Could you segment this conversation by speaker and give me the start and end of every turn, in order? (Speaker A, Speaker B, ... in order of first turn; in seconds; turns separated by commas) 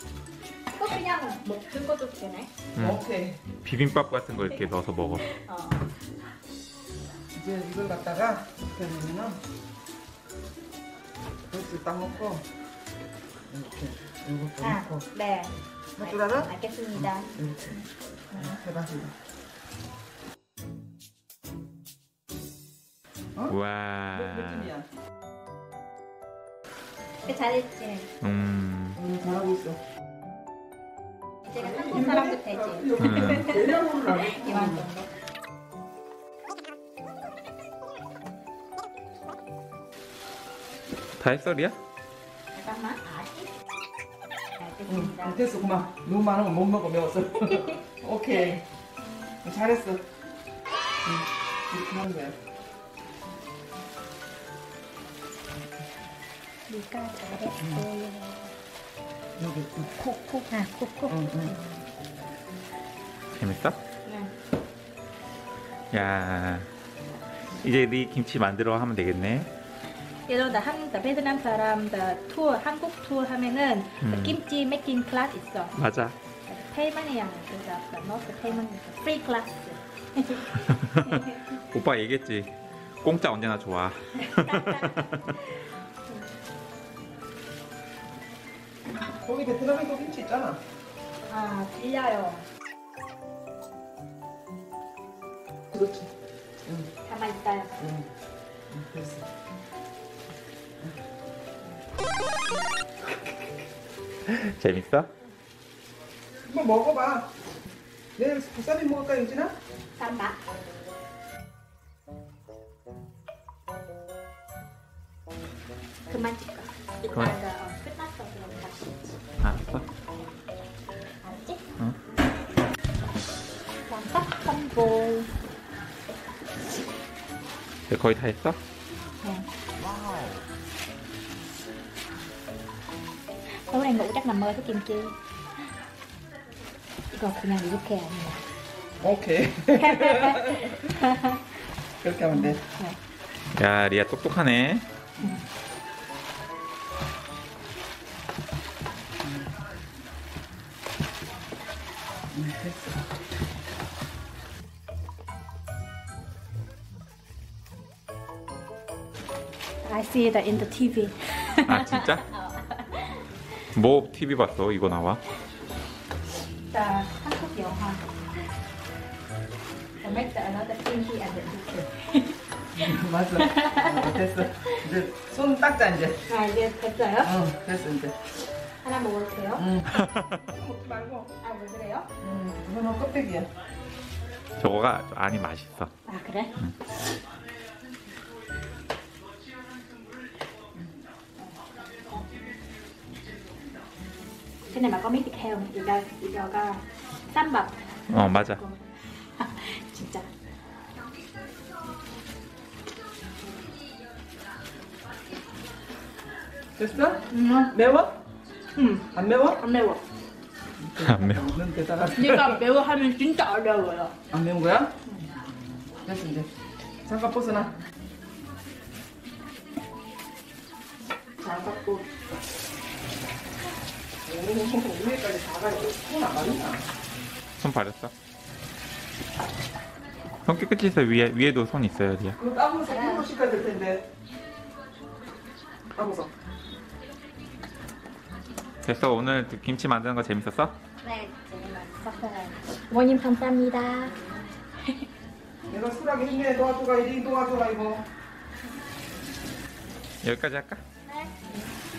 Speaker A: 0.8-2.5, Speaker B: 2.8-3.4, Speaker C: 3.6-5.3, Speaker A: 4.5-5.9, Speaker B: 7.3-9.4, Speaker B: 11.5-12.4, Speaker B: 13.5-15.1, Speaker A: 14.6-17.3, Speaker B: 16.0-19.1, Speaker A: 18.3-18.6, Speaker C: 23.5-24.7, Speaker B: 24.1-24.9, Speaker A: 27.2-28.1, Speaker C: 28.2-29.0, Speaker B: 29.0-29.8, Speaker A: 31.4-35.1, Speaker B: 31.5-34.9, Speaker C: 33.0-33.5, Speaker C: 41.2-41.8, Speaker A: 42.5-43.5, Speaker A: 44.6-45.4, Speaker B: 44.9-48.6, Speaker A: 47.5-47.8, Speaker B: 49.4-50.0, Speaker B: 51.0-52.4, Speaker A: 56.7-58.5, Speaker B: 57.6-57.9, Speaker B: 59.4-60.4, Speaker A: 60.0-61.8, Speaker B: 61.1-61.5, Speaker C: 63.4-63.8, Speaker A: 64.0-64.3, Speaker C: 65.9-66.7, Speaker C: 67.6-69.5, Speaker A: 70.3-75.8, Speaker C: 74.0-74.4, Speaker C: 75.7-76.1, Speaker A: 76.5-81.5, Speaker C: 80.7-82.5, Speaker C: 83.0-85.4, Speaker A: 84.2-85.4, Speaker B: 89.2-90.6, Speaker A: 91.3-92.5, Speaker B: 95.7-96.1, Speaker B: 96.7-96.9, Speaker A: 97.0-97.8, Speaker B: 97.8-98.1, Speaker B: 98.7-99.3, Speaker C: 104.3-105.1, Speaker B: 106.5-107.3, Speaker B: 108.2-109.5, Speaker A: 110.0-110.4, Speaker A: 116.1-119.2, Speaker C: 117.1-117.4, Speaker C: 119.4-119.8, Speaker A: 121.2-121.6, Speaker A: 123.9-125.3, Speaker C: 127.9-128.6, Speaker A: 133.6-135.2, Speaker A: 137.1-138.4, Speaker B: 139.0-140.9, Speaker A: 139.8-141.5, Speaker B: 142.0-142.6, Speaker A: 142.4-143.0, Speaker C: 143.5-144.8, Speaker B: 149.2-149.5, Speaker B: 152.3-153.1, Speaker A: 159.8-163.2, Speaker C: 161.7-162.2, Speaker C: 163.8-165.2, Speaker A: 166.6-168.2, Speaker A: 170.0-172.4, Speaker B: 172.8-176.2, Speaker A: 173.4-174.8, Speaker A: 176.3-177.3, Speaker B: 177.2-178.2, Speaker A: 178.8-179.7, Speaker B: 179.6-179.9, Speaker C: 179.9-180.4, Speaker B: 180.4-181.3, Speaker A: 181.4-182.1, Speaker B: 182.2-183.5, Speaker C: 184.6-185.9, Speaker A: 186.1-186.6, Speaker A: 191.4-191.7, Speaker A: 194.7-200.3, Speaker C: 198.1-198.6, Speaker B: 206.8-208.2, Speaker A: 207.3-207.8, Speaker A: 208.8-210.0, Speaker B: 209.1-209.6, Speaker B: 210.8-212.6, Speaker C: 211.0-211.5, Speaker A: 212.1-214.2, Speaker B: 214.3-214.9, Speaker B: 216.0-216.5, Speaker B: 217.1-217.8, Speaker B: 221.4-222.1, Speaker B: 224.3-226.8, Speaker C: 227.6-228.1, Speaker C: 230.5-232.4, Speaker B: 232.4-234.1, Speaker A: 232.8-233.3, Speaker B: 235.9-236.3, Speaker C: 238.8-240.8, Speaker A: 241.0-244.3, Speaker B: 245.7-248.1, Speaker C: 250.2-250.8, Speaker A: 251.1-251.7